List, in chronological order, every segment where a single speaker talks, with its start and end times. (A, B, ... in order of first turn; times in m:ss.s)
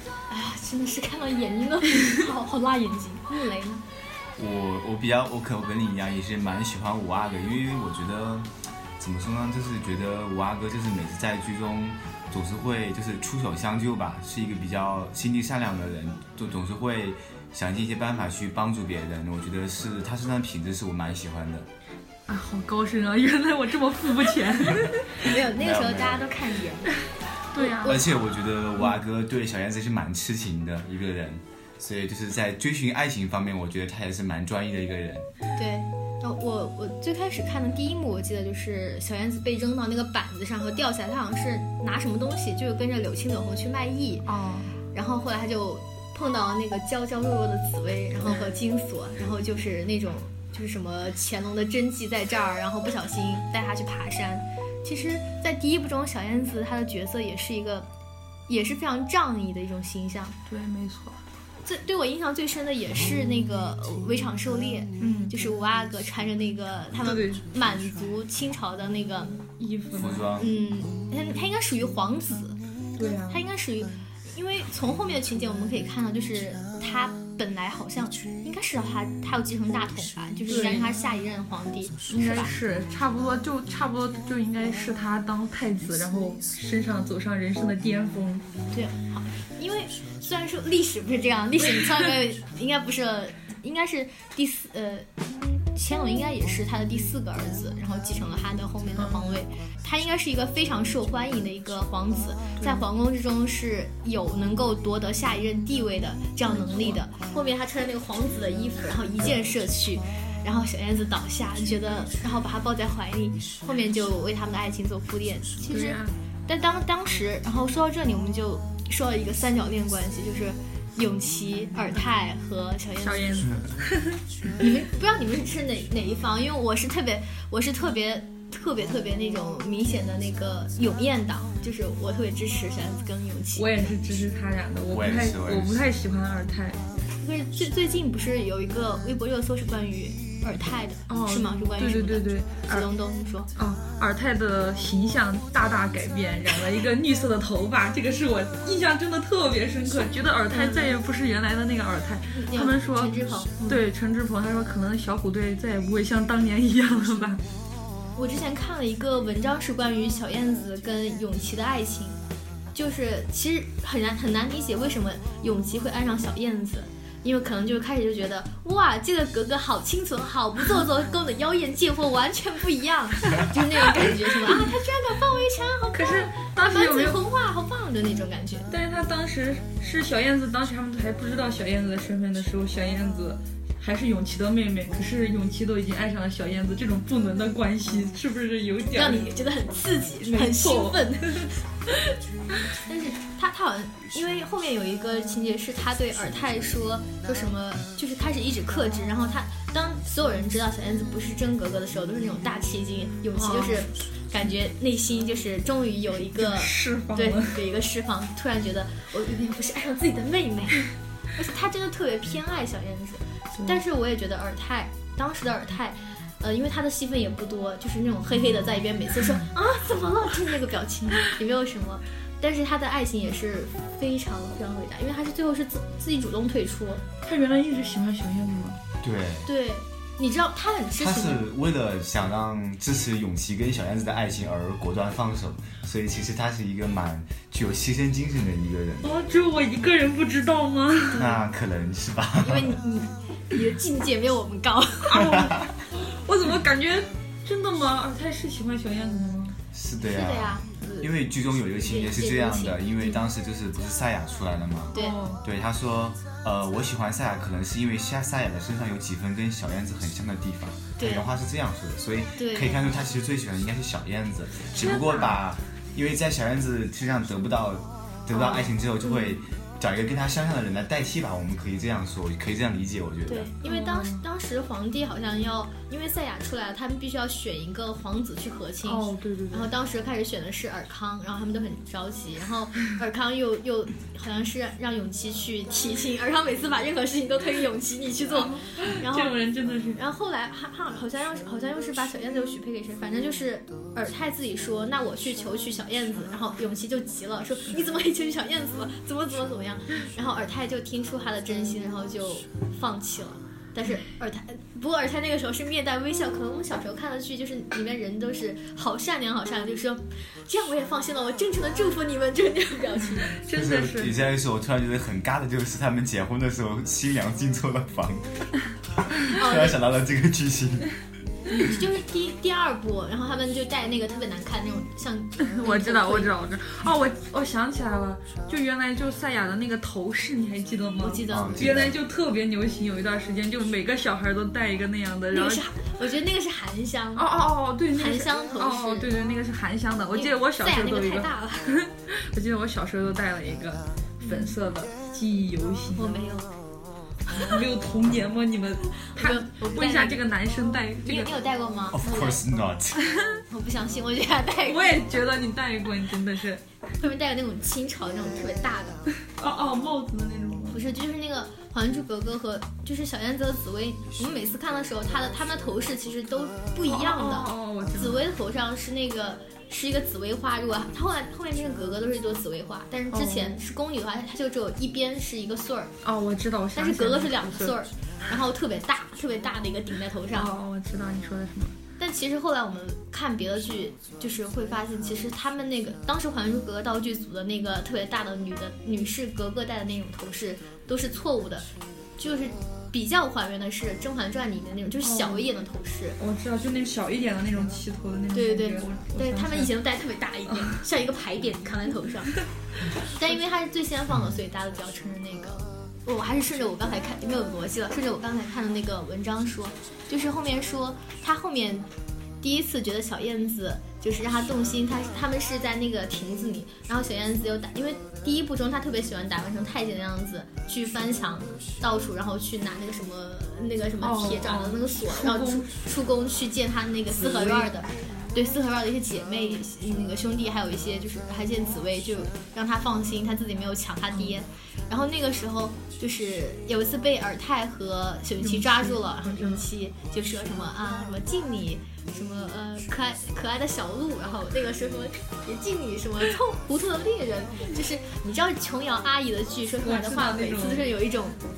0:00.3-0:03.8 A
0:04.4-0:21.7 B
0:22.3-0:25.2 C
0:25.2-0:27.0 A
0:25.5-0:26.3 B
0:27.5-0:28.1 A
0:27.6-0:28.0 C
0:27.8-0:35.3 B
0:35.6-0:44.3 A
0:44.3-0:44.7 C
0:44.9-0:57.9 A
0:58.5-1:00.4 A
1:00.5-1:01.2 C
1:01.6-1:09.4 A
1:05.0-1:05.5 C
1:07.0-1:07.4 C
1:09.6-1:10.3 C
1:09.9-1:10.5 B
1:10.4-1:12.6 A
1:13.0-1:13.4 C
1:13.3-1:22.5 A
1:20.5-1:20.9 C
1:22.1-1:28.5 C
1:28.7-2:03.5 A
1:39.0-1:39.3 C
1:42.6-1:42.8 C
1:46.5-1:47.0 C
1:55.7-1:56.2 C
2:03.0-2:03.5 C
2:04.6-2:13.8 A
2:13.6-2:16.8 C
2:14.9-2:15.8 B
2:17.2-2:23.5 A
2:21.1-2:22.9 C
2:23.6-2:33.2 C
2:30.5-2:31.0 A
2:32.3-2:33.8 A
2:33.7-2:37.4 C
2:38.2-2:42.2 A
2:42.7-2:58.7 A
2:55.9-2:57.2 C
2:58.7-3:09.3 C
3:08.9-3:11.5 A
3:10.2-3:12.2 C
3:12.9-3:47.0 A
3:23.4-3:23.8 C
3:26.4-3:27.6 C
3:47.2-3:48.8 C
3:49.0-3:49.5 B
3:49.4-3:51.4 A
3:51.0-3:59.1 B
3:59.0-4:01.3 C
4:01.2-4:02.8 B
4:02.4-4:05.4 A
4:05.1-4:09.6 C
4:05.4-4:05.6 B
4:09.7-4:33.5 B
4:10.1-4:11.1 A
4:11.8-4:13.1 A
4:15.0-4:15.4 C
4:21.0-4:21.3 A
4:22.4-4:22.8 A
4:24.8-4:25.4 C
4:28.3-4:28.7 A
4:29.1-4:29.4 C
4:33.3-4:49.4 A
4:33.6-4:34.2 C
4:38.8-4:39.7 C
4:48.4-4:50.0 C
4:50.0-5:13.4 A
5:13.3-5:14.2 C
5:13.5-5:18.5 B
5:19.2-5:20.9 B
5:19.3-5:19.8 A
5:21.5-5:26.3 A
5:25.4-5:35.6 C
5:31.0-5:31.8 A
5:31.3-5:32.0 B
5:35.3-5:37.4 A
5:37.2-5:46.2 C
5:37.9-5:39.1 A
5:40.1-5:41.7 A
5:44.2-5:44.5 A
5:46.0-5:46.5 A
5:47.3-5:51.3 C
5:49.2-5:50.2 A
5:51.0-5:52.4 A
5:51.9-5:53.1 B
5:53.0-5:53.4 C
5:53.5-5:55.0 A
5:54.6-5:56.6 C
5:57.0-5:59.1 A
5:59.4-6:00.8 C
6:00.7-6:15.9 A
6:06.9-6:08.2 C
6:13.1-6:13.6 C
6:16.0-6:17.8 C
6:16.8-6:20.5 A
6:20.3-6:21.8 C
6:22.0-6:36.2 A
6:35.0-6:35.5 C
6:36.2-6:39.7 C
6:38.3-6:42.4 A
6:43.0-6:51.9 A
6:52.4-7:31.4 A
7:04.0-7:05.8 C
7:07.2-7:07.7 C
7:18.4-7:19.7 C
7:29.8-7:30.9 C